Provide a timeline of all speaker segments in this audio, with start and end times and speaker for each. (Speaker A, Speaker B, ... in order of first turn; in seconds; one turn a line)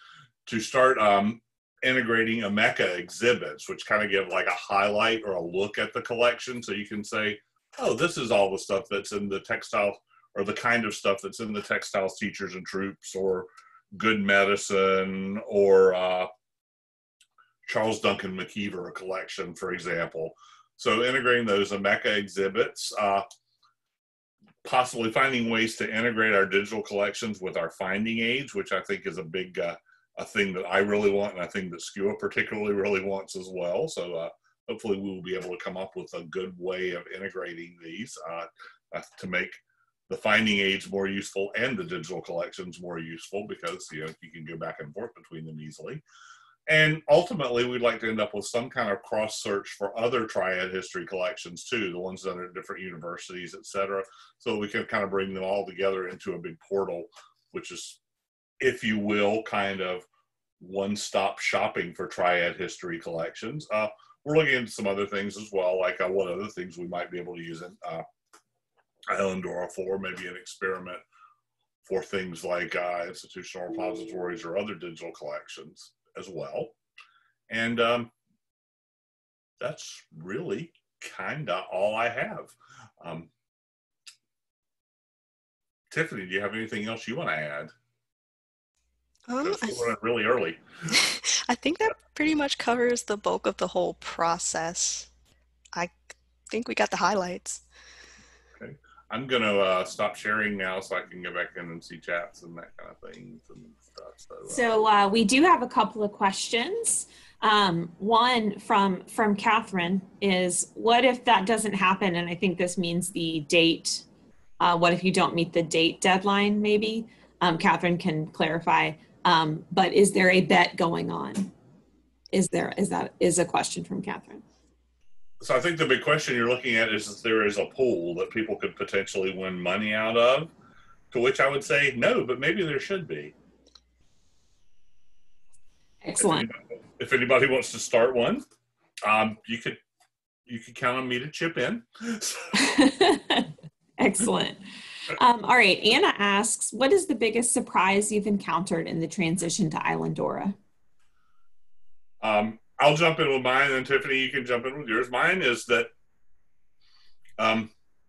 Speaker A: 0.5-16.3
Speaker A: 17.6-23.2
Speaker A: 24.6-46.0
Speaker A: 46.7-58.0
Speaker A: 58.6-60.0
Speaker A: 60.6-68.0
Speaker A: 69.1-71.0
Speaker A: 71.8-76.8
Speaker A: 77.5-78.1
Speaker A: 79.6-83.3
Speaker A: 85.9-87.7
Speaker B: 89.3-89.8
Speaker A: 89.4-91.0
Speaker B: 90.9-95.1
Speaker B: 96.5-97.6
Speaker A: 98.6-104.7
Speaker C: 104.5-114.0
Speaker C: 114.6-121.5
Speaker C: 122.3-124.4
Speaker A: 125.4-130.5
Speaker A: 131.1-133.3
Speaker C: 136.0-136.5
Speaker A: 136.2-138.4
Speaker A: 139.0-139.8
Speaker A: 140.5-142.5
Speaker C: 142.5-144.6
Speaker C: 145.1-150.6
Speaker A: 152.2-155.9
Speaker A: 157.4-157.7